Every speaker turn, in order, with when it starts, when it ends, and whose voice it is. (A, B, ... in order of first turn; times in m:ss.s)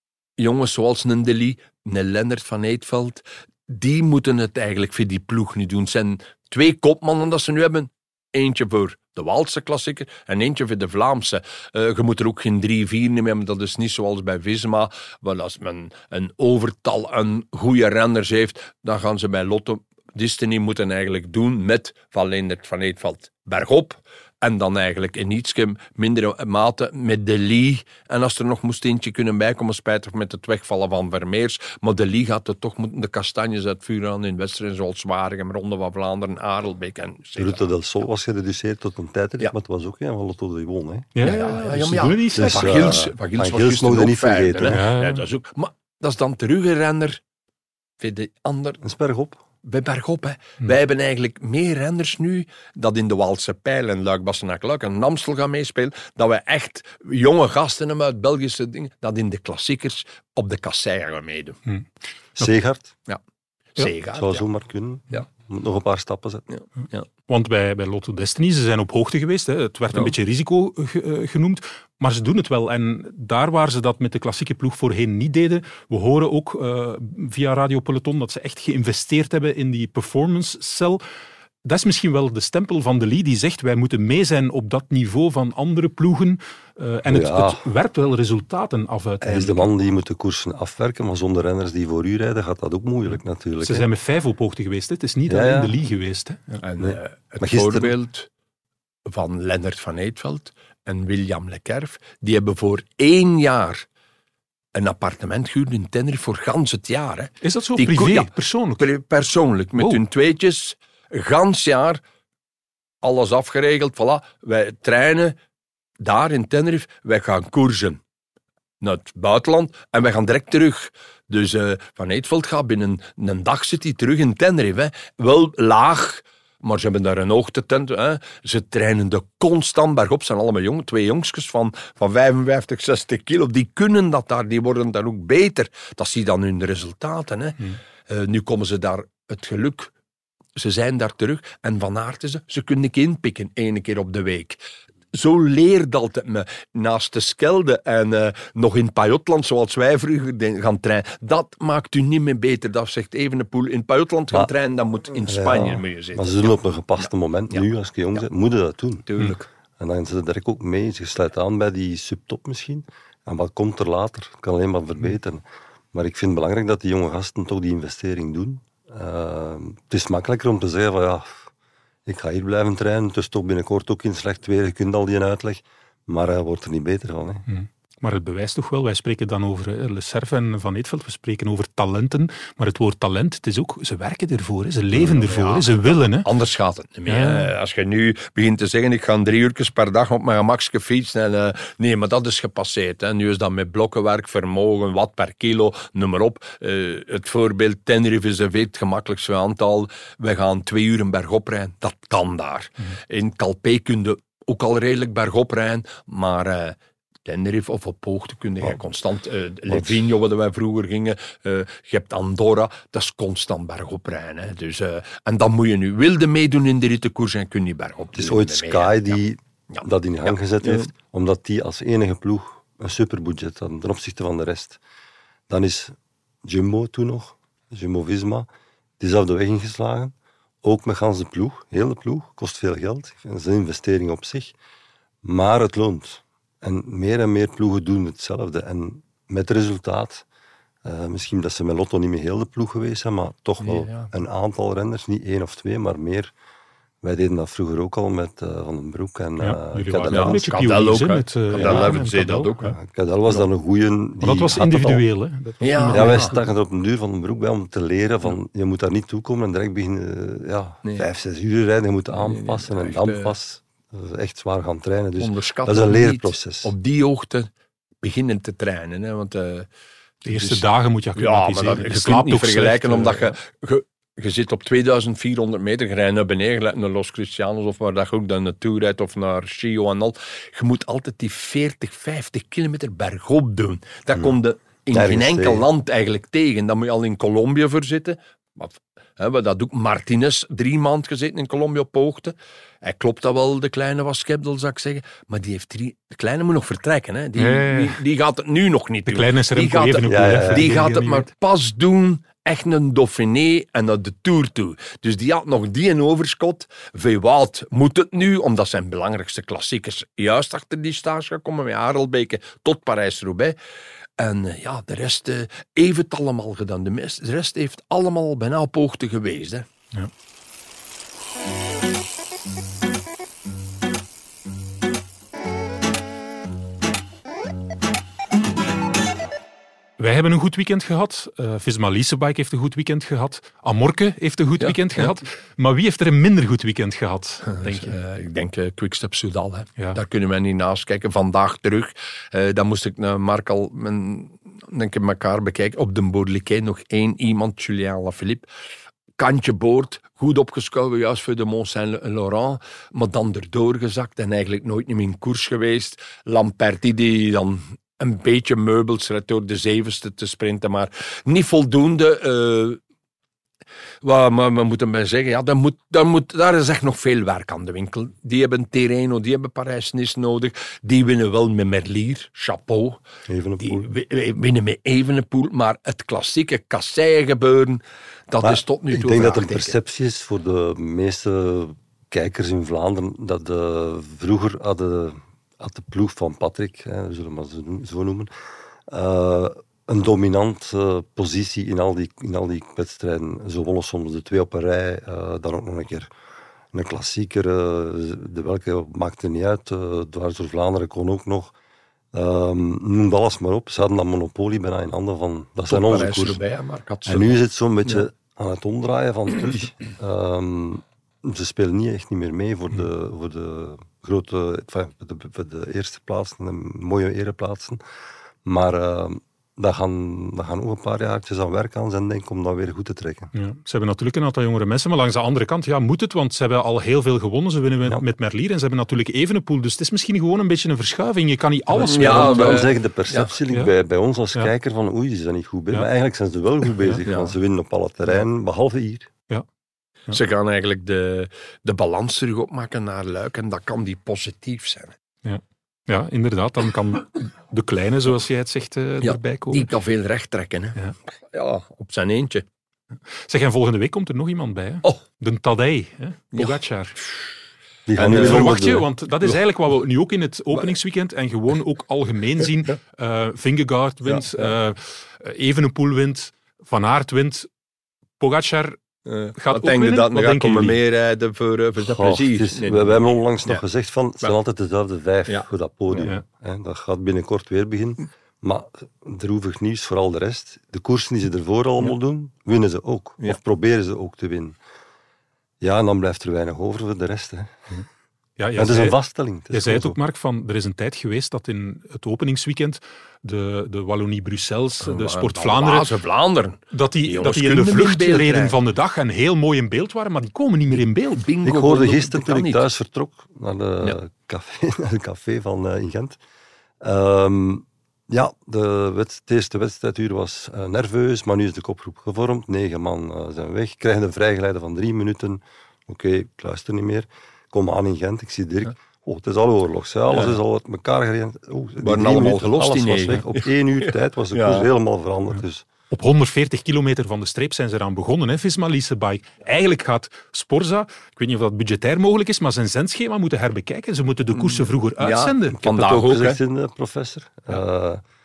0:00.4-0:37.6 A
0:37.4-0:41.4 B
0:41.1-0:42.8 C
0:41.2-0:47.2 A
0:42.3-0:44.8 B
0:44.7-0:45.2 C
0:48.0-0:48.8 A
0:48.8-0:49.4 B
0:49.6-1:01.6 A
1:02.4-1:02.9 B
1:03.8-1:04.4 A
1:04.1-1:06.4 B
1:06.5-1:07.0 A
1:07.3-1:21.0 C
1:21.6-1:29.7 C
1:27.1-1:27.7 B
1:29.2-1:33.9 B
1:33.6-1:36.6 C
1:35.3-1:35.8 B
1:36.6-1:38.3 A
1:36.8-1:37.9 B
1:39.0-1:43.8 A
1:44.8-1:52.0 A
1:47.4-1:48.9 C
1:53.0-1:55.4 A
1:56.0-1:58.0 A
1:58.8-2:19.9 A
2:20.6-2:24.6 A
2:25.1-2:37.7 A
2:35.2-2:39.1 B
2:39.1-2:39.5 A
2:39.8-2:51.5 B
2:52.0-2:57.4 B
2:57.5-3:06.3 C
3:05.0-3:40.9 A
3:07.1-3:07.5 C
3:29.7-3:30.0 B
3:38.1-3:44.8 B
3:45.5-3:48.5 B
3:49.0-3:54.5 B
3:55.2-4:00.2 B
4:00.8-4:06.3 B
4:03.6-4:04.1 A
4:07.0-4:10.5 B
4:09.4-4:12.8 C
4:10.1-4:12.8 A
4:11.5-4:12.0 B
4:12.8-4:15.0 B
4:14.2-4:16.4 C
4:15.6-4:16.4 A
4:15.9-4:26.7 B
4:22.1-4:23.3 A
4:25.2-4:27.5 A
4:28.0-4:29.7 A
4:30.2-5:13.6 A
4:30.2-4:33.3 C
4:44.9-4:45.7 B
4:57.4-4:58.0 C
4:59.1-5:01.3 C
5:00.0-5:00.8 B
5:14.2-5:19.7 A
5:30.0-5:38.0 C
5:34.6-5:35.1 A
5:37.5-5:48.5 A
5:49.2-6:02.8 A
6:04.0-6:13.0 A
6:13.3-6:13.8 B
6:13.6-6:19.8 A
6:18.4-6:28.3 B
6:28.9-6:36.1 B
6:36.7-6:41.5 B
6:42.1-6:46.4 B
6:45.7-6:48.0 A
6:47.1-6:57.8 B
6:58.4-7:03.3 B
7:03.3-7:12.7 C
7:11.8-7:13.3 A
7:11.8-7:19.1 B
7:17.0-7:17.3 A
7:20.1-7:24.9 A
7:25.2-7:29.7 C
7:29.0-7:30.8 A
7:31.3-7:32.4 A
7:33.1-7:37.0 C
7:36.3-7:37.1 A
7:37.9-7:38.9 B
7:38.0-7:38.6 A
7:38.0-7:47.5 C
7:44.0-7:44.5 A
7:48.2-7:48.8 C
7:49.0-7:53.6 A
7:49.4-7:50.8 C
7:51.8-8:04.6 B
7:55.3-7:56.1 A
8:05.6-8:07.5 B
8:08.4-8:09.0 C
8:08.6-8:10.0 B
8:09.5-8:15.9 C
8:14.8-8:18.6 A
8:16.7-8:21.2 C
8:20.8-8:22.6 A
8:21.4-8:26.2 B
8:26.8-8:45.7 B
8:40.1-8:40.4 A
8:41.8-8:44.7 A
8:45.9-8:56.0 C
8:54.4-8:56.4 A
8:55.6-8:58.0 B